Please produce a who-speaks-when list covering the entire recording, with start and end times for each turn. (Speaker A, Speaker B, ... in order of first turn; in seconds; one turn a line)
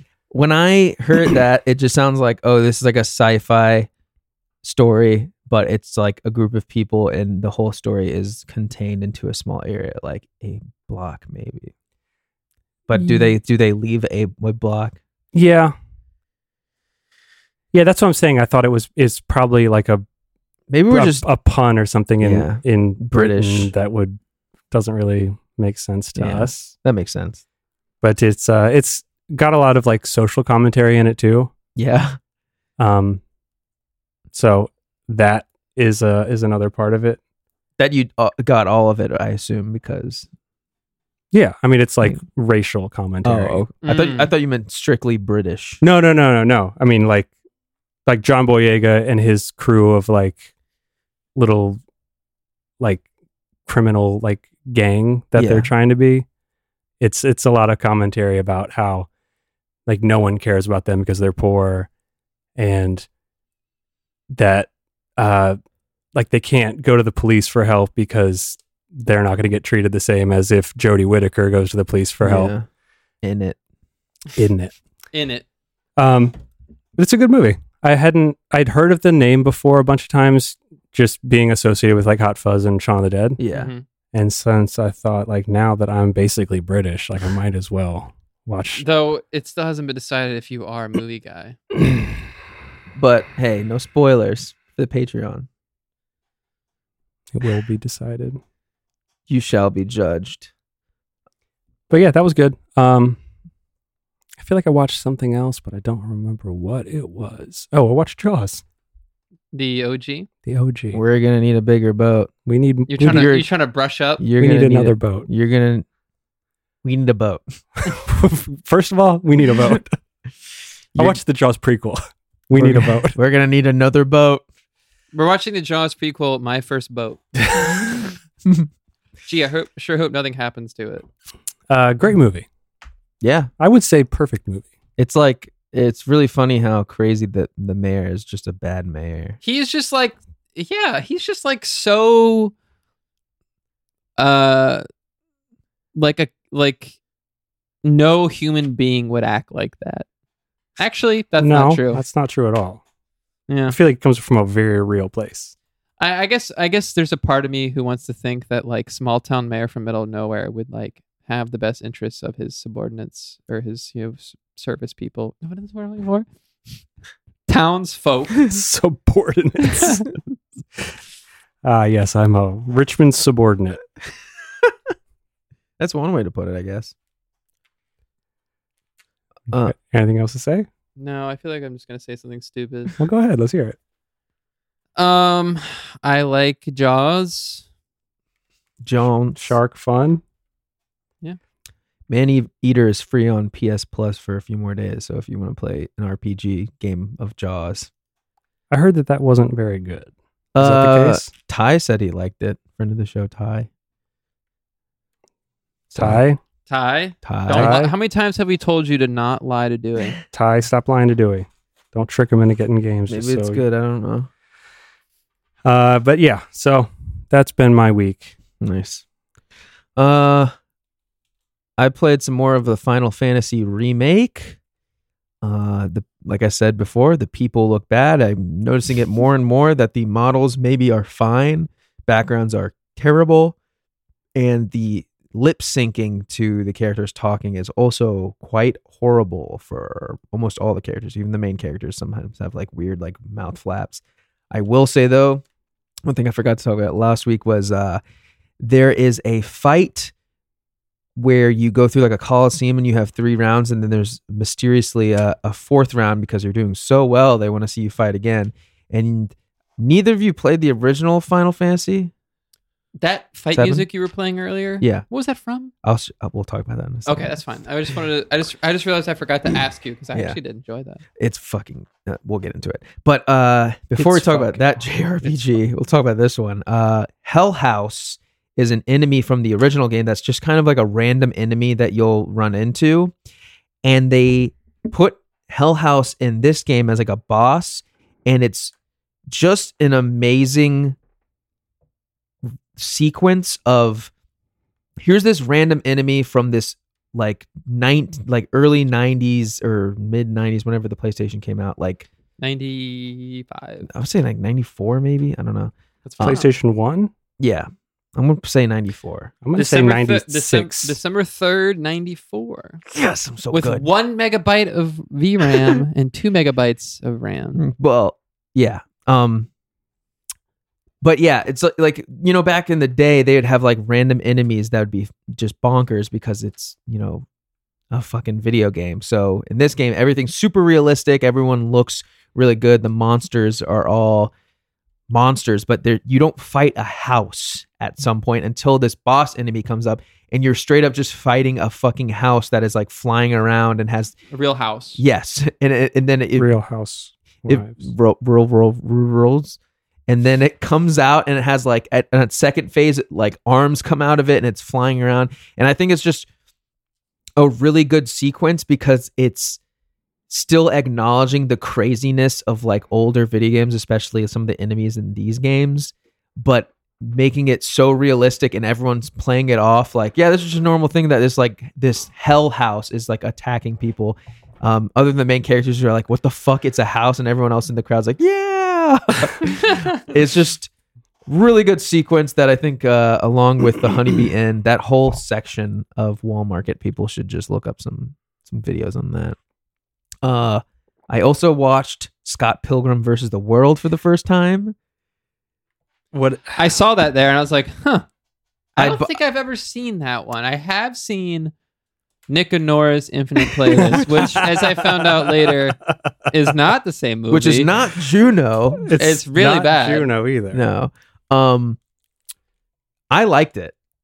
Speaker A: 0.3-3.9
Speaker A: 4.6-11.7
Speaker A: 12.9-15.0
Speaker B: 15.3-15.7
Speaker B: 17.7-20.0
Speaker A: 20.7-21.2
Speaker B: 20.9-24.2
Speaker A: 22.2-23.7
Speaker B: 24.7-26.7
Speaker A: 26.1-27.4
Speaker B: 28.0-31.5
Speaker A: 31.8-32.2
Speaker B: 32.8-33.2
Speaker B: 34.3-37.2
Speaker A: 37.8-40.3
Speaker B: 41.3-43.7
Speaker A: 43.2-45.8
Speaker C: 43.8-44.3
Speaker B: 45.8-47.3
Speaker B: 48.1-50.5
Speaker B: 51.4-51.8
Speaker B: 53.7-56.2
Speaker A: 55.4-55.7
Speaker B: 57.0-59.1
Speaker B: 59.9-61.9
Speaker B: 62.6-63.1
Speaker B: 64.3-65.6
Speaker B: 66.1-72.5
Speaker A: 72.2-72.7
Speaker A: 73.2-73.6
Speaker B: 74.3-74.7
Speaker C: 75.1-75.4
Speaker B: 76.0-76.3
Speaker B: 77.0-83.4
Speaker A: 83.4-83.7
Speaker C: 83.5-83.8
Speaker B: 84.1-88.8
Speaker C: 88.7-91.6
Speaker A: 92.9-95.5
Speaker B: 97.3-98.4
Speaker A: 99.3-100.5
Speaker B: 101.9-103.2
Speaker B: 104.4-108.6
Speaker C: 109.5-110.3
Speaker B: 110.5-111.0
Speaker A: 110.9-112.3
Speaker B: 112.5-113.3
Speaker C: 112.9-114.2
Speaker A: 113.0-113.5
Speaker A: 114.2-115.8
Speaker B: 114.4-115.3
Speaker A: 116.8-117.4
Speaker B: 117.8-119.8
Speaker A: 120.9-121.2
Speaker B: 121.0-123.2
Speaker A: 122.5-124.4
Speaker C: 125.1-127.2
Speaker C: 129.2-131.1
Speaker B: 131.7-132.5
Speaker A: 133.2-133.5
Speaker B: 133.6-134.7
Speaker A: 135.0-139.4
Speaker C: 139.4-142.5
Speaker C: 144.2-144.8
Speaker C: 145.9-146.9
Speaker C: 147.8-150.1
Speaker C: 150.8-152.0
Speaker B: 151.4-152.8
Speaker C: 153.5-153.8
Speaker B: 153.7-155.5
Speaker C: 156.0-166.2
Speaker C: 167.5-168.4
Speaker B: 168.4-170.1
Speaker B: 171.6-173.8
Speaker A: 175.8-176.9
Speaker B: 179.7-180.7
Speaker C: 181.0-182.9
Speaker B: 183.0-183.8
Speaker C: 185.0-187.6
Speaker A: 188.8-189.6
Speaker B: 189.3-190.2
Speaker A: 192.1-197.9
Speaker B: 198.7-201.3
Speaker A: 200.5-203.7
Speaker A: 205.9-206.2
Speaker B: 205.9-206.4
Speaker C: 206.7-210.2
Speaker A: 207.2-207.8
Speaker B: 207.5-207.9
Speaker B: 210.3-213.6
Speaker A: 213.1-214.3
Speaker B: 215.6-218.3
Speaker A: 218.6-219.0
Speaker A: 219.9-220.5
Speaker A: 221.8-224.6
Speaker A: 225.4-233.6
Speaker A: 234.3-245.4
Speaker A: 246.1-248.0
Speaker A: 248.6-250.1
Speaker A: 251.2-262.1
Speaker C: 263.0-265.7
Speaker A: 263.5-263.9
Speaker A: 265.8-267.4
Speaker C: 267.1-271.0
Speaker A: 271.2-283.1
Speaker B: 273.9-274.8
Speaker A: 283.8-288.7
Speaker A: 289.3-291.0
Speaker A: 292.8-294.1
Speaker A: 295.0-302.1
Speaker C: 302.4-303.9
Speaker A: 303.9-306.4
Speaker B: 306.1-307.1
Speaker C: 306.2-306.5
Speaker A: 307.4-309.3
Speaker B: 309.4-311.0
Speaker C: 309.6-312.8
Speaker A: 312.9-313.8
Speaker C: 313.5-317.6
Speaker A: 317.5-319.5
Speaker A: 321.0-327.2
Speaker A: 327.9-334.3
Speaker A: 335.1-344.1
Speaker C: 344.3-345.0
Speaker A: 345.0-346.5
Speaker B: 346.4-347.8
Speaker A: 347.5-356.3
Speaker A: 357.4-359.6
Speaker A: 360.3-380.7
Speaker A: 381.2-389.4
Speaker A: 390.2-394.7
Speaker B: 396.1-396.6
Speaker C: 396.6-398.1
Speaker C: 398.8-401.5
Speaker A: 398.8-399.1
Speaker C: 402.3-405.8
Speaker B: 403.7-405.6
Speaker C: 406.3-407.7
Speaker A: 407.3-408.9
Speaker B: 408.8-410.6
Speaker C: 408.9-410.1
Speaker A: 410.5-411.8
Speaker A: 413.1-413.7